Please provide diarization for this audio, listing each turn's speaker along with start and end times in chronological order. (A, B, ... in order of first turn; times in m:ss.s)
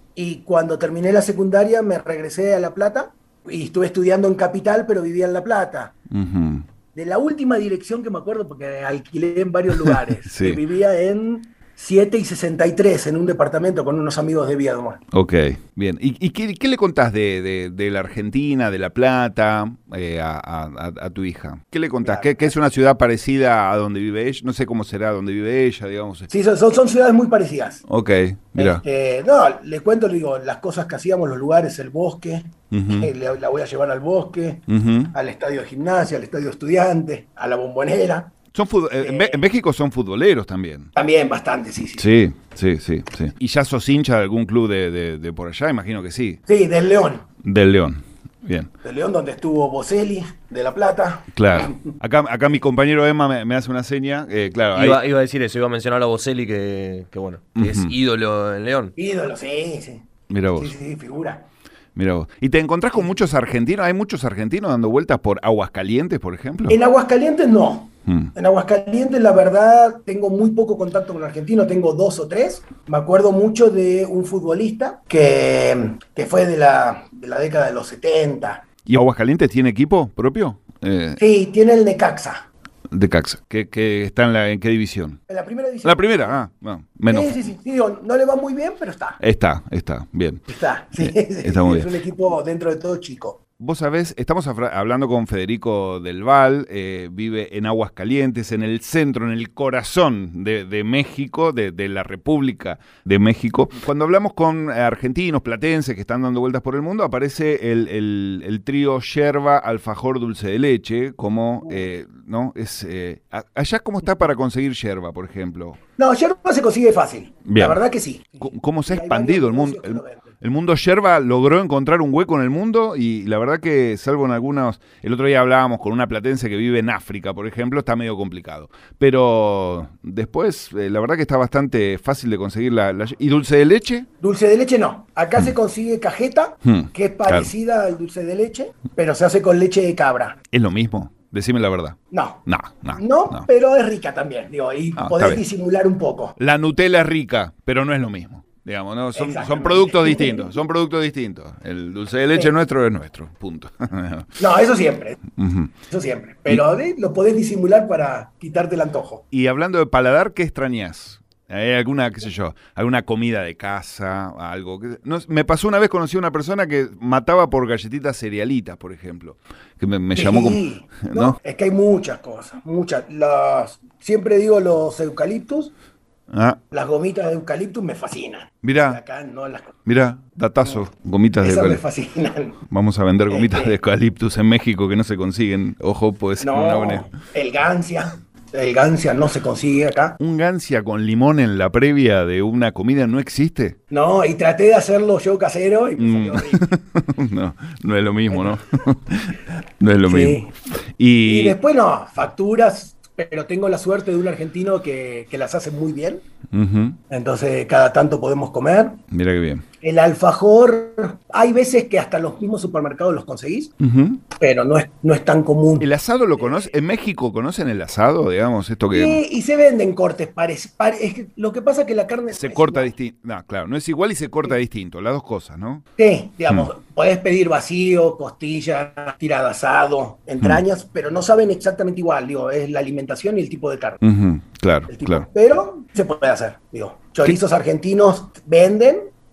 0:00.2-0:06.0 A
0:06.1-0:06.6 B
0:06.9-0:15.0 A
0:09.8-0:10.6 B
0:15.1-0:26.3 B
0:22.0-0:22.4 A
0:26.3-0:27.8 A
0:27.9-0:28.8 B
0:28.6-0:38.3 A
0:32.7-0:33.1 B
0:34.7-0:35.2 B
0:38.5-0:40.9 B
0:39.0-0:39.4 A
0:41.0-0:42.1 A
0:42.0-0:46.4 B
0:46.5-0:47.3 A
0:47.4-0:48.7 B
0:48.8-0:51.9 A
0:51.3-0:55.0 B
0:54.7-0:58.9 C
0:57.6-0:58.0 B
0:59.0-1:01.5 A
1:00.3-1:00.7 B
1:02.0-1:06.8 B
1:06.7-1:18.6 A
1:08.1-1:08.3 B
1:18.9-1:21.2 B
1:21.2-1:22.5 A
1:22.9-1:25.2 B
1:25.3-1:26.4 A
1:25.8-1:27.4 B
1:27.1-1:29.2 A
1:29.2-1:30.4 B
1:30.5-1:33.4 A
1:31.0-1:32.0 B
1:33.6-1:55.8 B
1:56.0-2:00.3 A
1:57.5-1:57.8 B
1:58.4-2:14.1 B
2:14.2-2:20.4 A
2:16.6-2:17.5 B
2:20.5-2:23.5 B
2:22.1-2:22.4 A
2:23.0-2:26.4 A
2:25.0-2:25.4 B
2:26.4-2:34.4 B
2:29.2-2:30.5 A
2:34.4-2:35.2 A
2:35.4-2:35.7 B
2:35.9-2:39.2 A
2:39.3-2:51.4 B
2:50.1-2:55.7 A
2:56.3-2:56.6 B
2:56.7-2:59.8 A
2:58.6-2:59.0 B
2:59.9-3:01.8 B
3:01.4-3:02.6 A
3:02.7-3:07.1 B
3:03.3-3:03.8 A
3:06.4-3:10.2 A
3:10.2-3:13.8 B
3:13.9-3:16.8 A
3:16.0-3:20.4 B
3:18.3-3:18.6 A
3:20.1-3:20.5 A
3:21.0-3:21.6 B
3:21.2-3:26.2 A
3:26.5-3:27.0 B
3:27.1-3:29.0 A
3:29.1-3:29.6 B
3:29.8-3:33.7 A
3:33.8-3:34.2 B
3:34.4-3:35.9 A
3:35.8-3:39.2 B
3:36.4-3:36.7 A
3:38.9-3:42.9 A
3:42.3-3:45.8 B
3:46.0-3:54.0 A
3:54.0-3:55.3 B
3:54.9-3:59.1 A